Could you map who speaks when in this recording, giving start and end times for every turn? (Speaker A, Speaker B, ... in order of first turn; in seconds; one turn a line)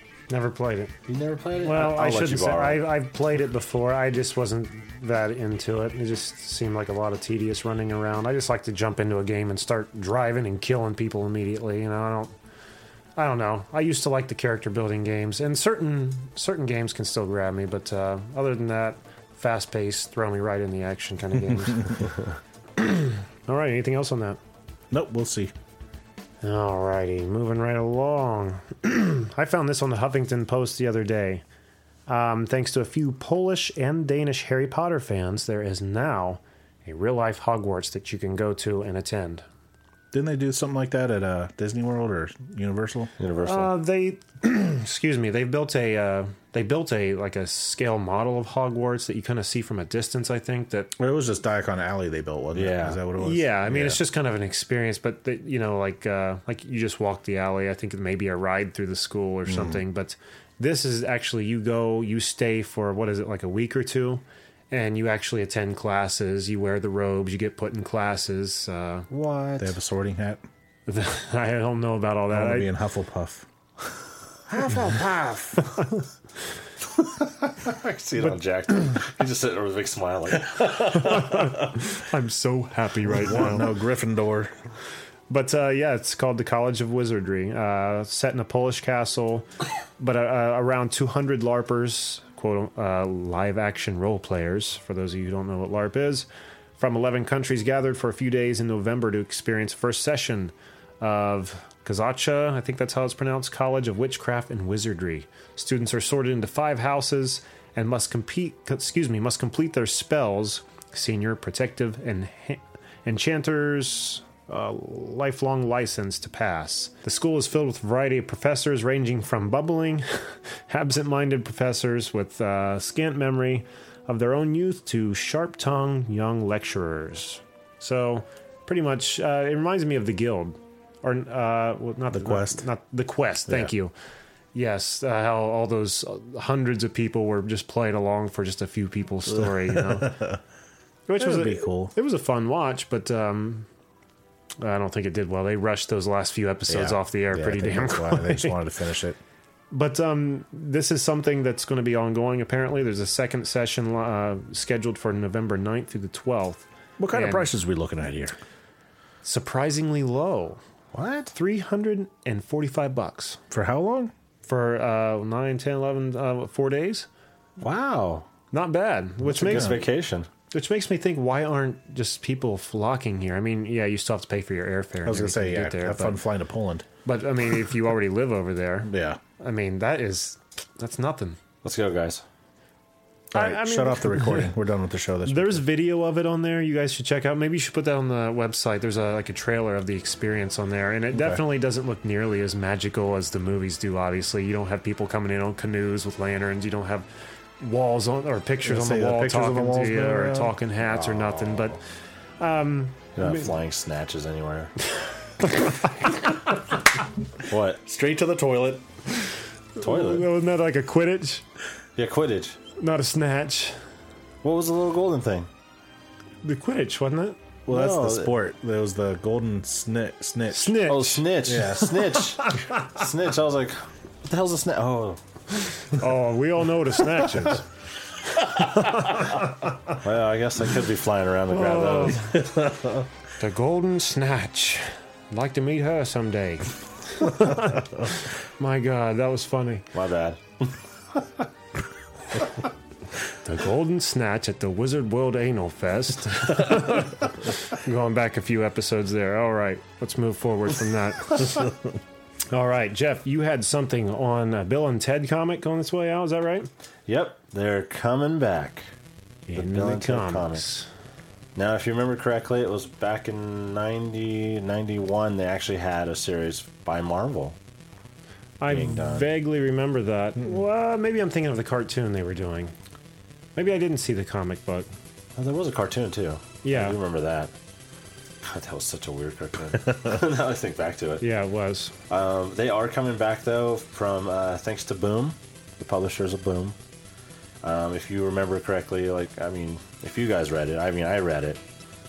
Speaker A: 0.3-0.9
Speaker B: 1.1-2.9
Speaker A: 1.6-12.3
Speaker A: 13.2-22.1
Speaker A: 22.8-24.4
Speaker C: 24.9-25.5
Speaker A: 26.4-31.4
Speaker A: 32.1-39.4
Speaker C: 40.1-43.1
Speaker B: 43.2-43.7
Speaker A: 43.4-50.9
Speaker C: 51.0-54.0
Speaker B: 52.5-53.0
Speaker A: 53.2-69.1
Speaker C: 59.5-59.8
Speaker B: 69.1-69.7
Speaker C: 69.6-70.4
Speaker A: 70.9-72.7
Speaker C: 72.3-73.5
Speaker B: 74.5-75.6
Speaker A: 74.6-75.0
Speaker B: 77.0-81.2
Speaker A: 80.9-83.7
Speaker C: 83.2-84.5
Speaker A: 85.3-89.5
Speaker A: 90.0-96.2
Speaker A: 96.8-133.9
Speaker C: 132.1-132.6
Speaker A: 134.5-140.2
Speaker C: 139.3-140.4
Speaker A: 141.1-143.7
Speaker C: 141.2-141.9
Speaker A: 144.6-148.6
Speaker C: 146.7-149.2
Speaker A: 149.7-157.5
Speaker C: 157.0-158.3
Speaker A: 159.2-160.6
Speaker B: 160.9-161.3
Speaker A: 161.3-163.4
Speaker C: 163.5-164.1
Speaker A: 164.4-167.1
Speaker B: 167.6-168.2
Speaker A: 168.5-169.8
Speaker B: 169.3-170.3
Speaker C: 169.3-169.8
Speaker A: 170.5-176.2
Speaker C: 175.0-176.9
Speaker A: 177.0-181.4
Speaker C: 178.8-179.2
Speaker B: 181.6-182.2
Speaker C: 183.3-185.6
Speaker A: 183.3-184.5
Speaker A: 185.2-197.1
Speaker C: 191.1-191.4
Speaker A: 197.6-201.8
Speaker C: 198.6-200.6
Speaker B: 201.0-201.7
Speaker A: 202.4-203.4
Speaker B: 203.2-204.7
Speaker A: 205.4-205.7
Speaker B: 207.5-207.8
Speaker C: 207.8-208.8
Speaker A: 209.8-211.4
Speaker B: 209.8-210.3
Speaker B: 211.9-212.6
Speaker A: 212.8-213.8
Speaker B: 214.4-215.5
Speaker A: 216.4-217.4
Speaker C: 217.7-222.2
Speaker B: 217.7-218.3
Speaker A: 220.5-221.2
Speaker B: 220.9-225.2
Speaker A: 225.9-227.6
Speaker B: 230.0-232.3
Speaker A: 231.5-232.4
Speaker C: 232.5-232.9
Speaker A: 233.4-239.9
Speaker B: 239.9-240.8
Speaker A: 243.4-251.7
Speaker A: 252.5-256.7
Speaker B: 257.1-258.8
Speaker B: 259.5-260.6
Speaker A: 259.5-260.9
Speaker B: 261.5-267.6
Speaker A: 268.6-272.7
Speaker B: 268.7-269.3
Speaker A: 273.6-274.9
Speaker B: 275.4-277.5
Speaker A: 276.6-277.0
Speaker B: 278.4-281.2
Speaker A: 281.2-281.9
Speaker B: 282.1-286.8
Speaker B: 287.6-291.6